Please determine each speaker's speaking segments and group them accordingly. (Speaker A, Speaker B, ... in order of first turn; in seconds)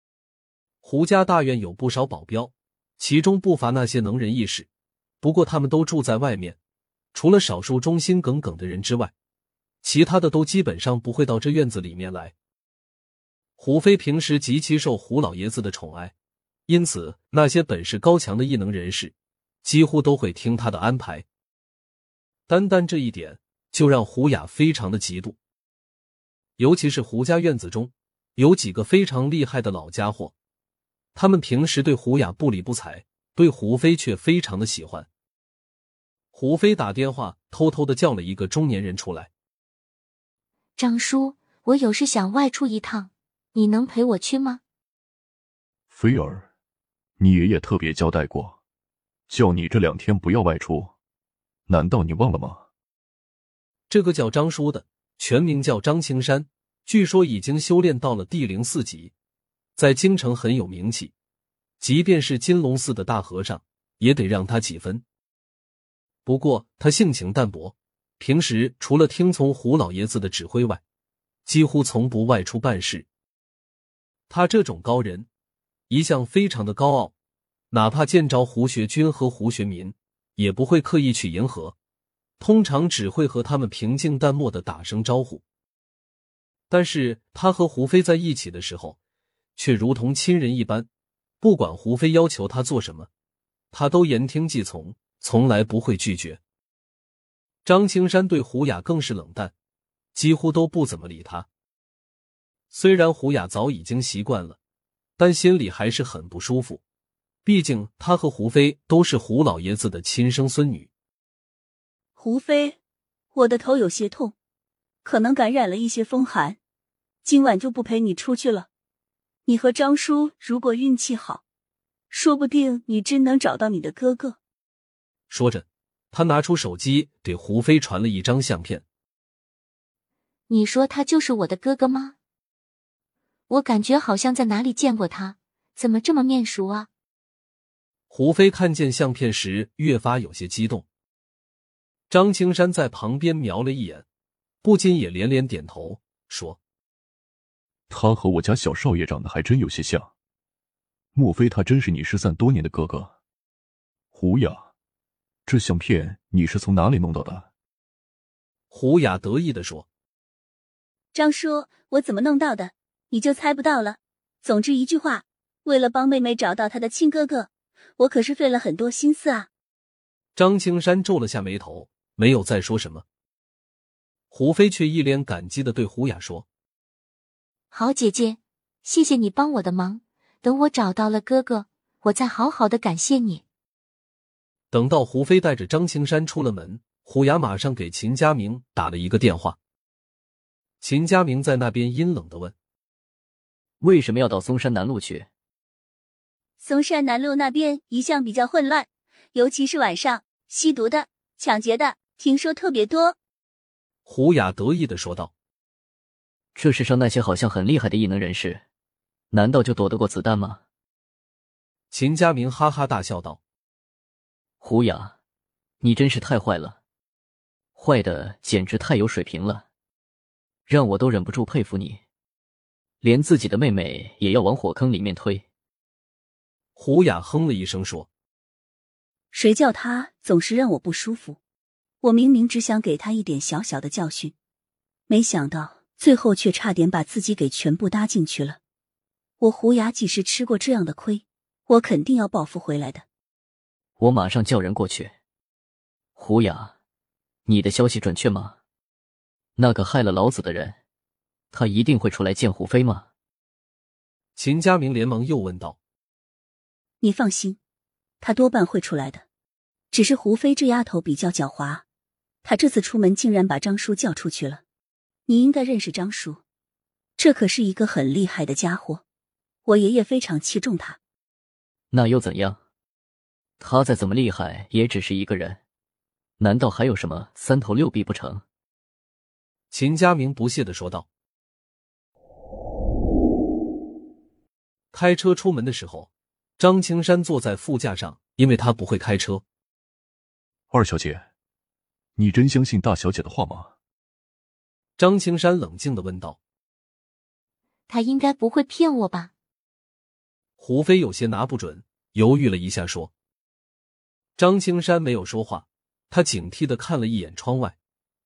Speaker A: 0.8-4.7, 5.2-6.6, 7.1-9.1, 9.8-12.3, 13.6-16.1, 16.7-19.1, 19.6-21.3, 22.5-25.4, 26.6-30.3, 31.1-35.1, 36.3-39.3, 53.9-59.1, 59.8-61.1, 61.8-65.0, 66.2-70.8, 71.5-73.1, 74.3-75.3, 75.9-77.1, 77.7-81.8, 82.4-85.4, 86.7-89.0, 89.6-90.9, 91.4-93.1, 93.7-96.4, 97.7-99.5, 100.2-101.5, 102.7-104.6, 105.2-106.8, 107.5-110.9, 125.3-128.8, 138.1-140.9, 142.1-144.1, 144.6-146.6, 158.7-159.9, 170.4-173.0, 174.3-176.5, 184.7-189.6, 190.8-192.6, 204.1-205.3, 211.9-213.4, 226.8-228.1, 254.4-255.8, 279.7-281.1, 284.9-289.4, 295.0-296.4, 300.6-303.1, 304.4-307.8
Speaker B: 40.8-44.6, 130.5-132.2, 133.5-136.9, 177.7-183.4, 297.9-299.3
Speaker C: 45.9-46.5, 47.2-48.6, 49.3-50.9, 51.7-52.6, 147.9-150.1, 151.2-153.1, 154.1-154.7, 155.5-157.5, 290.7-291.2, 292.2-293.7
Speaker D: 112.2-112.8, 113.3-114.3, 115.0-116.6, 117.2-118.7, 119.5-121.4, 122.1-124.4, 161.1-169.5, 196.6-203.2, 229.3-231.4, 232.0-234.3, 235.1-238.6, 239.4-243.1, 257.0-257.6, 258.2-259.2, 259.9-261.8, 262.4-264.6, 265.3-266.4, 267.2-269.0, 269.6-271.0
Speaker E: 193.8-195.3, 206.6-208.6, 209.3-210.6, 214.6-215.1, 215.8-216.8, 217.8-219.7, 220.7-222.0, 223.0-225.4, 244.0-245.1, 246.2-246.7, 247.5-248.6, 249.6-250.8, 251.5-253.1, 271.9-272.6, 273.6-275.6, 276.4-278.4